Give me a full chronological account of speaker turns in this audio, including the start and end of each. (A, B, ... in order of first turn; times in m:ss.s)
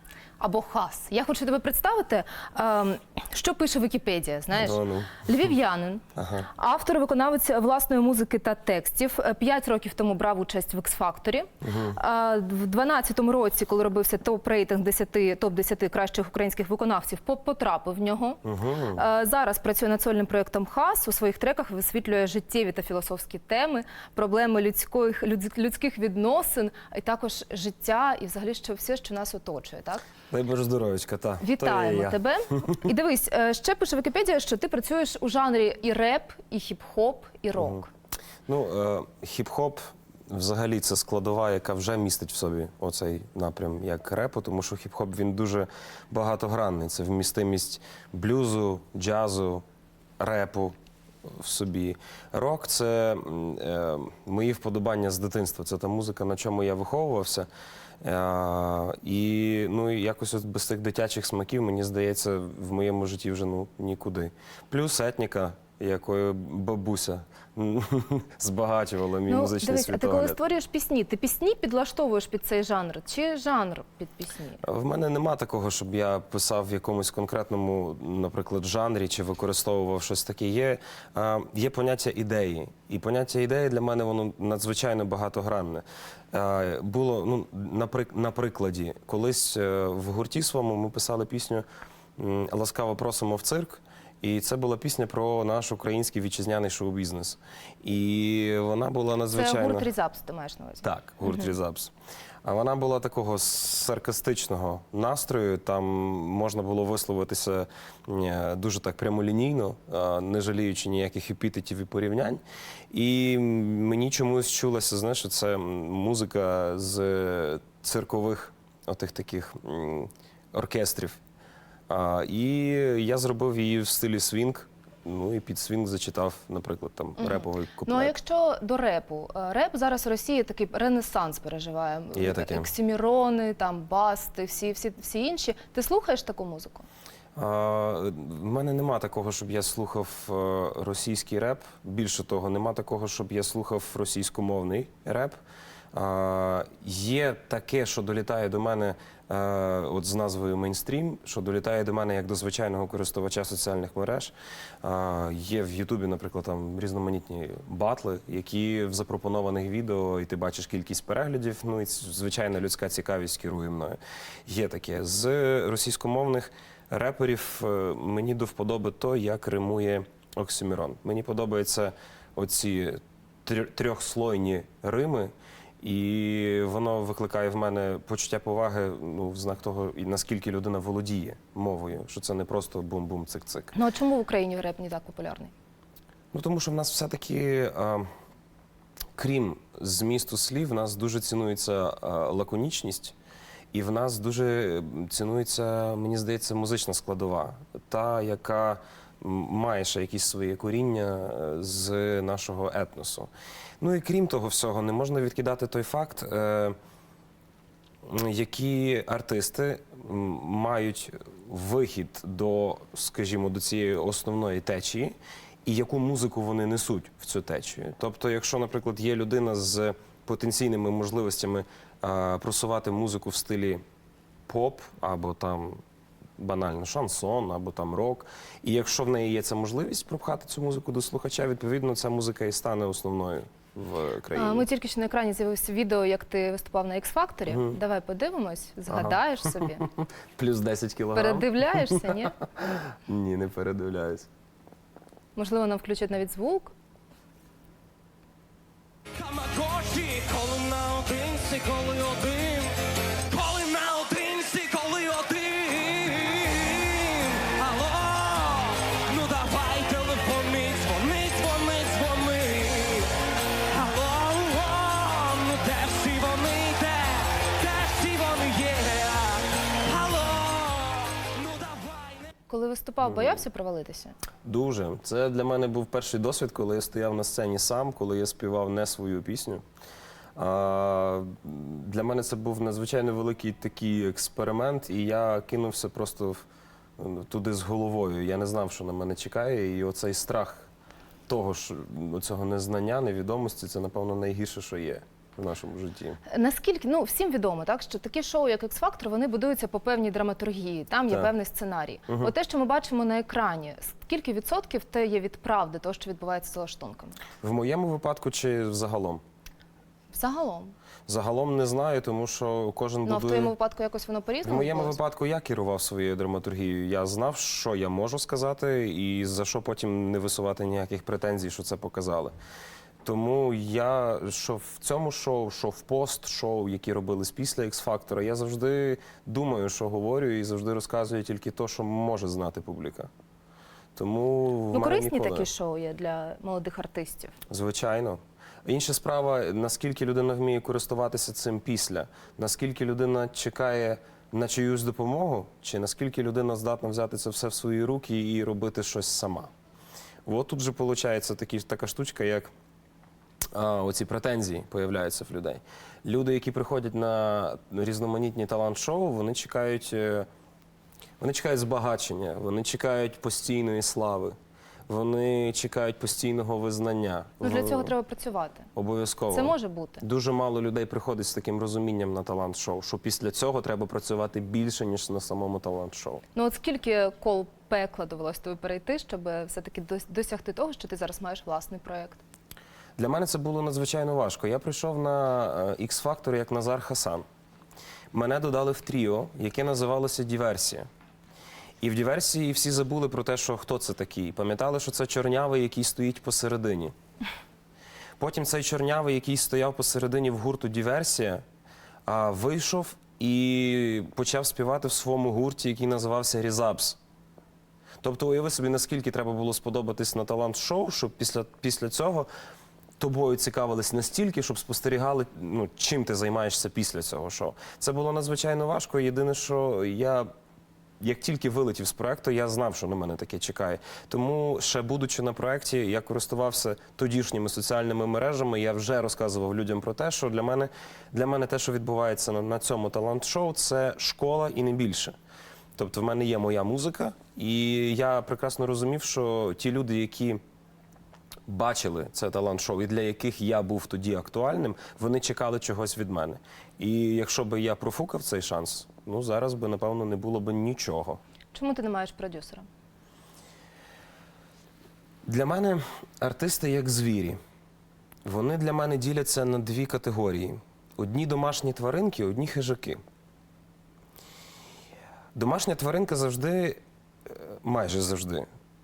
0:00.4-0:18.4 A
0:04.5-0:05.3 B
0:06.2-0:06.5 B
0:11.6-0:12.0 B
0:18.4-0:19.0 B
0:18.9-0:30.0 A
0:30.3-0:32.8 B
0:31.4-0:37.9 A
0:37.6-0:37.8 B
0:38.5-0:49.6 B
0:50.2-0:57.5 B
0:58.0-1:10.4 B
1:09.3-1:14.6 A
1:14.6-1:31.6 B
1:32.2-1:39.9 B
1:39.3-1:40.9 A
1:40.8-1:41.9 B
1:42.4-2:01.2 B
2:01.9-2:08.1 B
2:07.2-2:16.9 A
2:12.1-2:12.7 B
2:17.4-2:25.4 B
2:25.9-3:03.7 B
3:03.7-3:05.5 A
3:06.3-3:08.1 B
3:09.1-3:13.1 B
3:13.7-3:26.7 B
3:28.0-3:43.8 B
3:44.5-3:45.8 B
3:46.4-3:54.7 B
3:54.3-3:59.8 A
3:57.5-3:57.8 B
3:58.9-4:04.3 B
4:01.1-4:02.4 A
4:05.4-4:06.7 A
4:09.2-4:12.7 C
4:13.3-4:23.1 C
4:23.7-4:32.2 C
4:32.5-4:34.2 A
4:33.0-4:33.4 B
4:34.4-4:39.6 B
4:40.4-4:46.4 B
4:47.0-4:50.7 B
4:51.3-4:56.2 B
4:56.3-5:07.2 A
5:02.1-5:02.3 B
5:07.4-5:09.2 B
5:10.1-5:10.7 A
5:11.1-5:13.5 B
5:13.0-5:15.0 A
5:14.4-5:22.3 B
5:23.0-5:33.1 B
5:33.9-5:35.5 B
5:34.7-5:37.4 A
5:37.5-5:49.5 B
5:50.2-5:52.5 B
5:53.5-6:00.3 B
6:01.2-6:04.3 B
6:04.9-6:07.9 B
6:07.4-6:08.7 A
6:08.8-6:16.2 B
6:09.3-6:10.0 A
6:16.3-6:22.2 A
6:23.0-6:27.2 B
6:28.1-6:30.9 B
6:31.8-6:36.9 B
6:38.2-6:41.4 B
6:42.0-6:47.0 B
6:48.0-6:52.3 B
6:53.0-7:00.3 B
7:01.0-7:15.1 B
7:15.8-7:20.4 B
7:21.5-7:31.2 B
7:31.5-7:32.7 A
7:35.2-7:37.4 B
7:38.2-7:43.0 B
7:45.3-7:48.5 B